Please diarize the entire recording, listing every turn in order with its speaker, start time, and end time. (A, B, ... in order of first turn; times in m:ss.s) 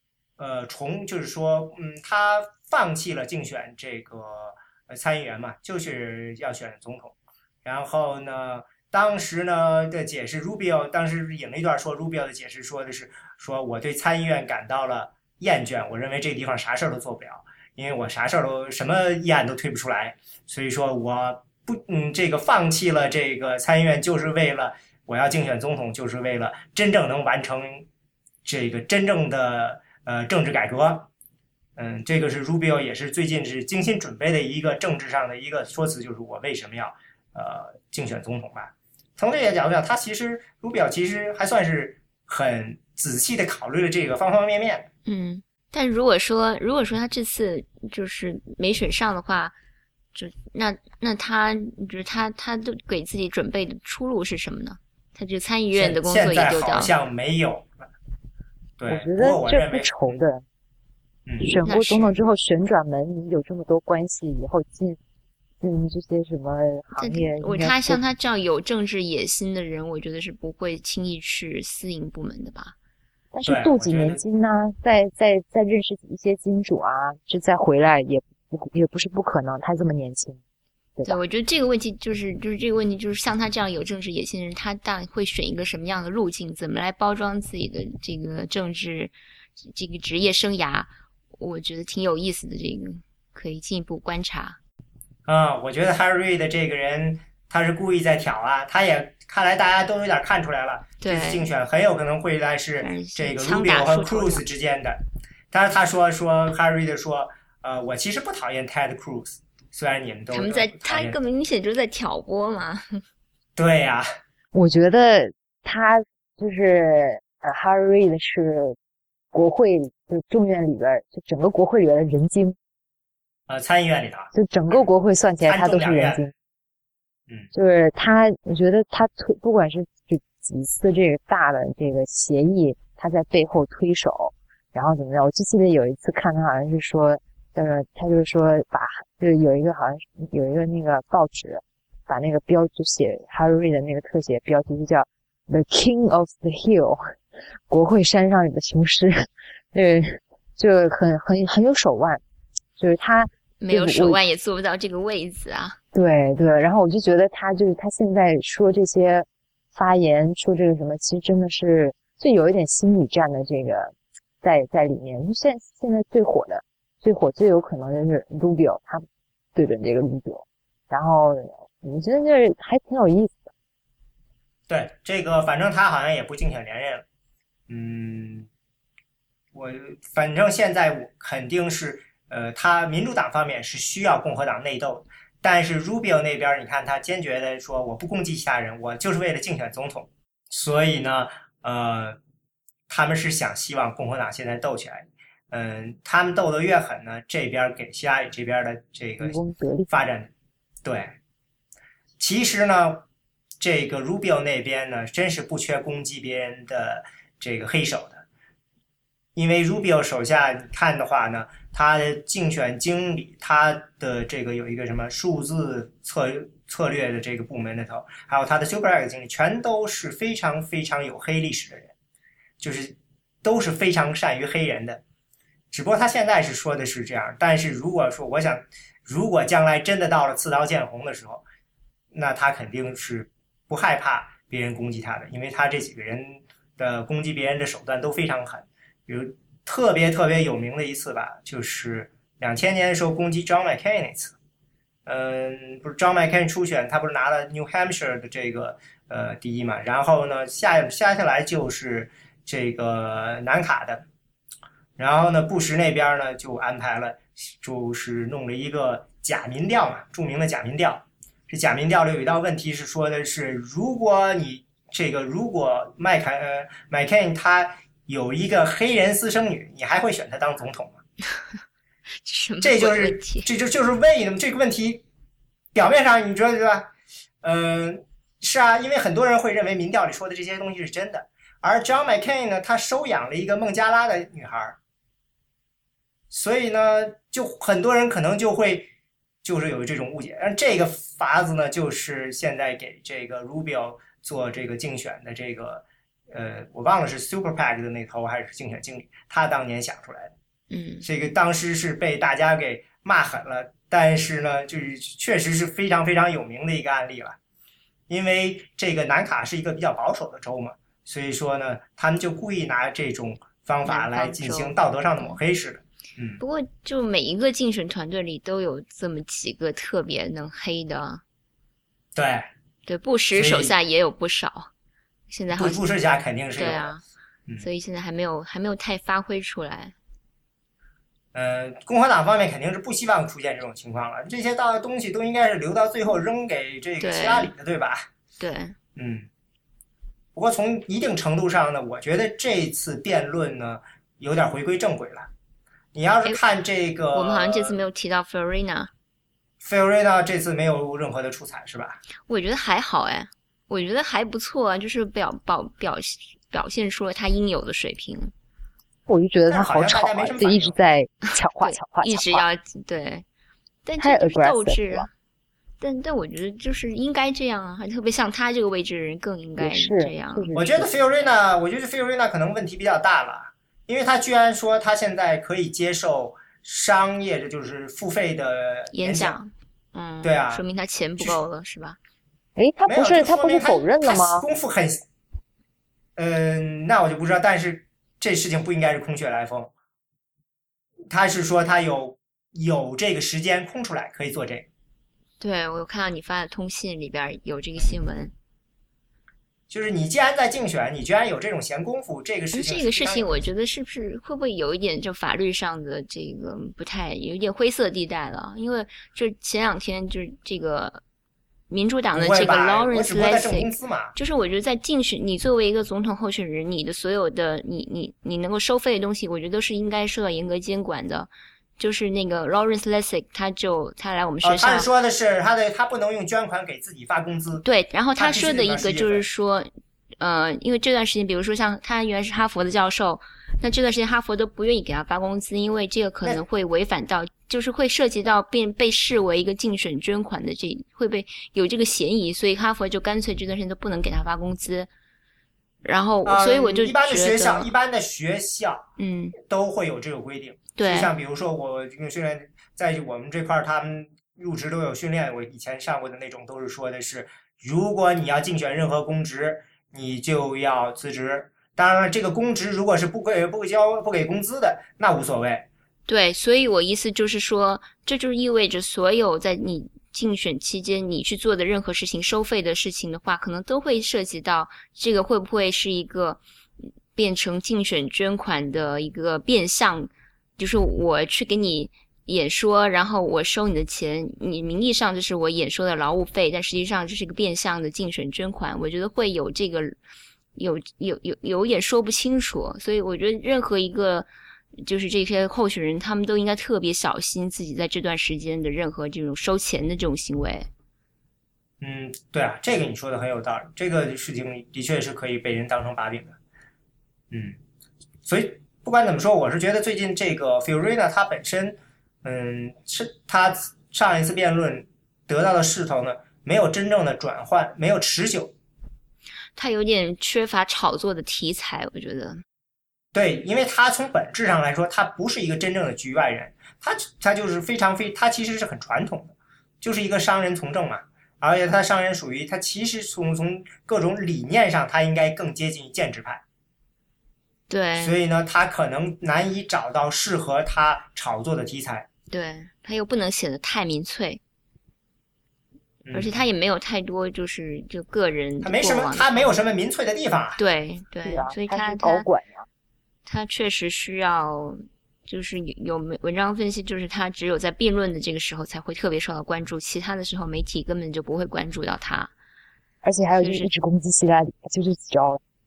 0:00.4-0:27.9 A
0:28.4-0:31.1 A
0:31.8-0:44.9 A
0:45.0-0:49.5 B
0:50.1-0:56.9 B
0:55.7-0:57.7 A
0:58.8-1:00.2 A
0:58.9-1:00.4 C
1:01.2-1:01.6 A
1:01.4-1:05.0 C
1:01.6-1:02.2 B
1:05.6-1:08.0 C
1:07.0-1:12.7 B
1:13.3-1:20.4 C
1:13.4-1:14.2 A
1:21.1-1:34.6 B
1:35.3-1:51.2 A
1:41.0-1:41.5 B
1:42.8-1:44.4 B
1:50.3-1:53.0 B
1:53.6-1:54.1 A
1:54.5-1:58.8 C
1:59.3-2:02.6 C
2:03.5-2:04.3 A
2:04.3-2:06.3 C
2:05.4-2:06.3 A
2:07.5-2:27.0 C
2:27.7-2:32.2 C
2:32.8-2:34.2 C
2:33.6-2:35.8 B
2:35.9-2:53.5 C
2:54.7-2:57.0 A
2:57.7-2:58.5 A
2:59.5-3:12.2 A
3:12.9-3:19.4 A
3:19.2-3:19.9 C
3:19.9-3:20.3 A
3:20.8-3:21.1 A
3:22.2-3:23.0 A
3:23.6-3:28.2 A
3:29.4-3:41.9 A
3:42.6-3:45.0 A
3:45.7-3:51.4 A
3:52.1-4:04.4 A
4:05.0-4:14.0 A
4:15.0-4:31.0 A
4:32.2-4:33.5 B
4:32.6-4:35.0 A
4:35.7-4:36.9 A
4:37.4-4:44.8 A
4:46.3-4:48.9 A
4:49.4-5:00.3 A
5:00.7-5:01.0 B
5:01.0-5:07.4 A
5:08.1-5:16.4 A
5:13.8-5:15.4 B
5:16.4-5:21.2 B
5:22.2-5:22.5 A
5:22.8-5:24.7 B
5:23.3-5:23.7 A
5:25.3-5:25.9 B
5:25.5-5:26.9 A
5:26.6-5:27.0 B
5:27.6-5:29.9 B
5:31.3-5:38.1 A
5:37.0-5:37.5 B
5:38.4-5:38.8 B
5:39.0-5:39.3 A
5:40.3-5:45.3 A
5:45.9-5:47.8 A
5:47.1-5:48.9 B
5:49.6-5:52.0 A
5:52.3-5:58.3 B
5:59.1-6:02.4 C
5:59.5-6:00.8 A
6:01.6-6:03.2 B
6:03.8-6:05.1 B
6:04.0-6:05.1 C
6:05.8-6:10.5 B
6:09.6-6:10.9 C
6:10.5-6:19.4 A
6:18.9-6:22.0 B
6:20.2-6:20.6 A
6:22.6-6:24.5 C
6:22.9-6:25.0 A
6:26.2-6:29.7 A
6:31.1-6:34.7 A
6:35.4-6:38.3 B
6:39.7-6:43.3 A
6:42.5-6:51.0 B
6:51.7-7:04.9 B
6:52.1-6:54.1 A
7:04.4-7:07.6 A
7:07.6-7:24.9 B
7:08.2-7:09.3 A
7:25.8-7:27.7 B
7:26.2-7:28.8 A
7:29.0-7:29.4 B
7:29.4-7:45.6 A
7:30.7-7:31.1 B
7:46.1-7:56.4 B
7:57.2-8:10.0 B
8:10.6-8:20.7 B
8:21.8-8:26.4 A
8:27.3-8:27.6 A
8:28.2-8:38.5 A
8:39.6-8:42.4 B
8:43.1-8:56.4 A
8:57.7-8:58.2 B
8:58.0-9:02.1 A
9:02.3-9:04.4 B
9:06.0-9:06.4 A
9:06.1-9:09.5 B
9:08.6-9:10.6 A
9:10.6-9:12.2 B
9:11.2-9:12.6 C
9:13.2-9:22.3 B
9:23.0-9:25.4 C
9:23.4-9:23.7 B